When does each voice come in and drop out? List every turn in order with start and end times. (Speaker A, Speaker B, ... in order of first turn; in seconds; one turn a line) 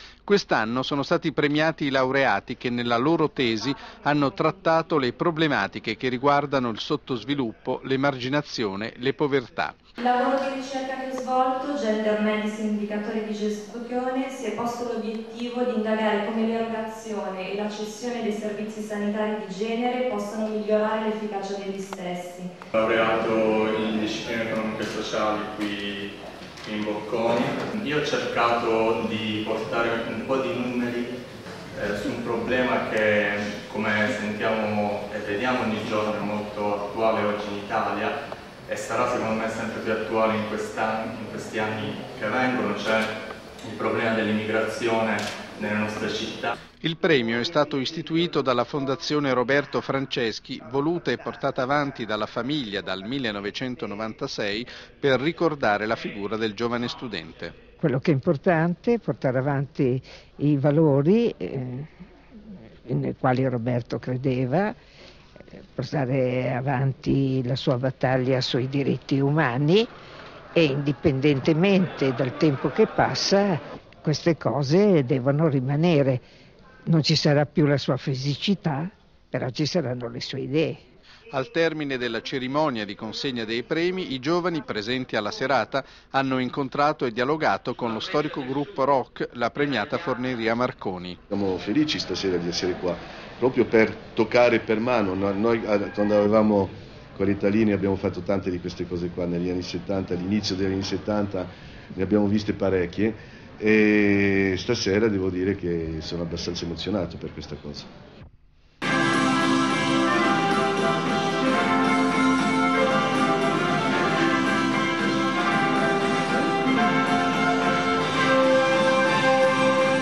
Speaker A: 0.2-9.8
Speaker B: 10.0-22.5
Speaker C: 22.7-31.2
Speaker C: 31.7-38.1
Speaker C: 38.7-46.5
Speaker A: 46.8-57.5
Speaker D: 57.8-61.9
Speaker D: 62.9-64.8
Speaker D: 65.5-69.9
Speaker D: 70.5-76.2
Speaker D: 76.9-80.8
Speaker A: 81.3-91.2
Speaker E: 91.3-107.9